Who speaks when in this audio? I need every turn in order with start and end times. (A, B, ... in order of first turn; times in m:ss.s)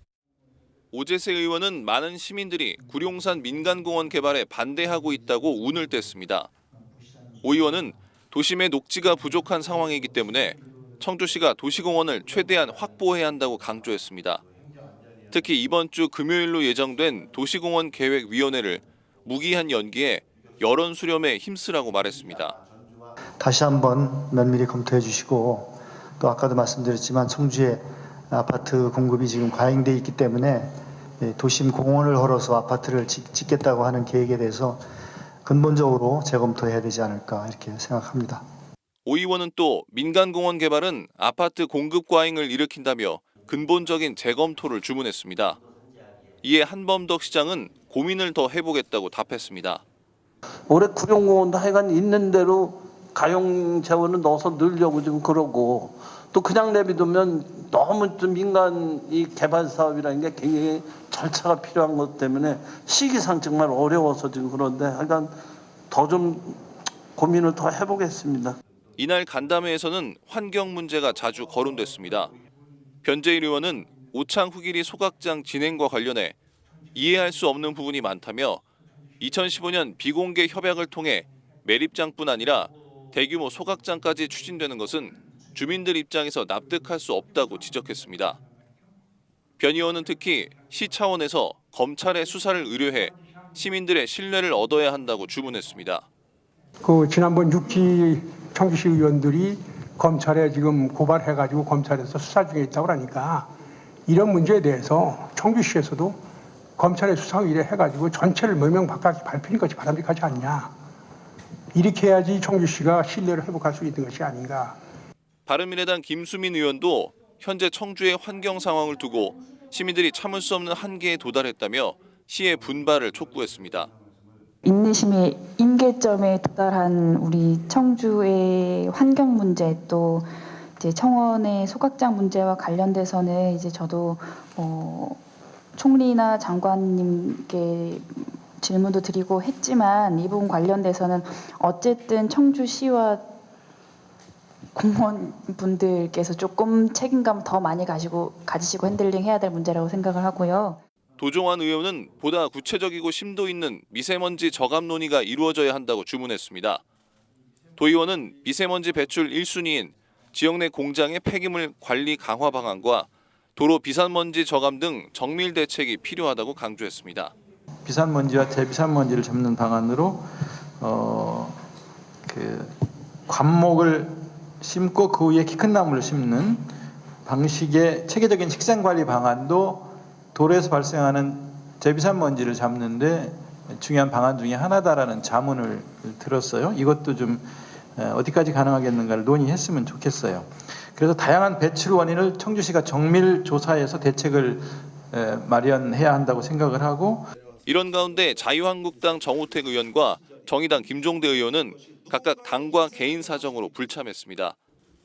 0:00.9-0:06.5 A
0:07.4-0:14.4 A
0:15.3-0:22.6 A
0:23.4-0:34.8 B
0:35.4-0:38.4 B
0:39.0-0:45.6 A
0:46.4-0:49.8 A
0:50.8-0:52.5 C
0:53.2-1:05.2 C
1:06.0-1:06.4 C
1:07.2-1:08.5 C
1:09.0-1:12.3 A
1:13.0-1:16.4 A
1:16.9-1:18.6 A
1:19.2-1:28.4 A
1:29.6-1:36.0 A
1:36.8-1:43.5 D
1:44.1-1:46.2 D
1:46.8-1:50.7 D
1:51.7-1:54.8 D
1:55.4-2:03.9 A
2:04.6-2:15.2 E
2:15.7-2:23.3 E
2:24.7-2:30.8 E
2:31.2-2:36.8 A
2:37.8-2:47.3 A
2:47.8-2:50.2 F
2:50.8-2:51.6 F
2:52.3-2:52.7 F
2:53.3-2:56.7 F
2:57.2-3:07.4 F
3:08.0-3:17.3 F
3:17.6-3:24.6 A